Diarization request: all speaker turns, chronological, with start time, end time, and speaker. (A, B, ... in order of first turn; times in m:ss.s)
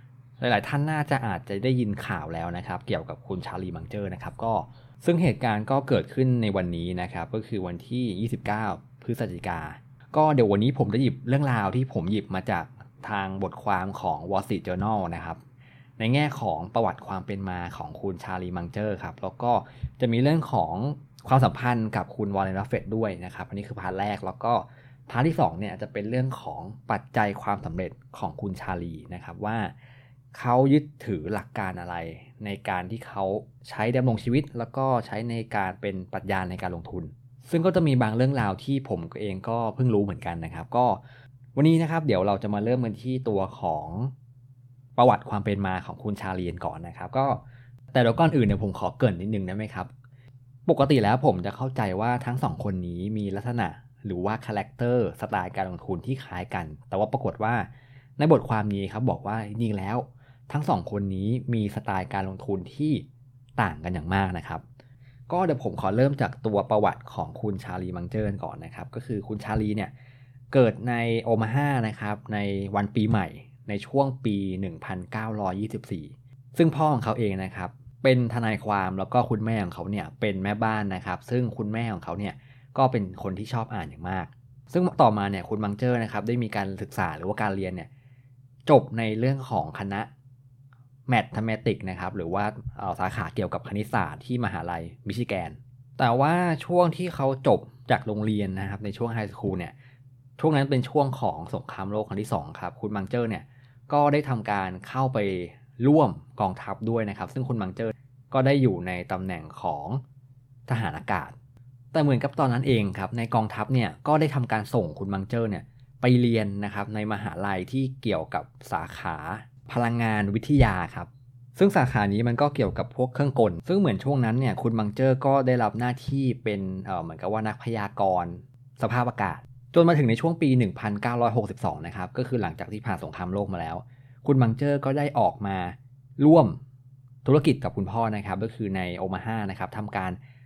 0:00.4-0:15.4 A
0:16.0-0:29.7 A
0:30.3-0:41.0 A
0:41.6-0:44.1 A
0:45.0-0:47.4 A
0:47.9-0:49.9 A
0:50.7-1:03.1 A
1:03.6-1:04.6 A
1:05.3-1:09.9 A
1:10.5-1:27.9 A
1:28.7-1:30.1 A
1:31.1-1:39.7 A
1:40.4-1:50.0 A
1:50.7-1:51.4 A
1:51.9-2:16.6 A
2:17.2-2:20.2 A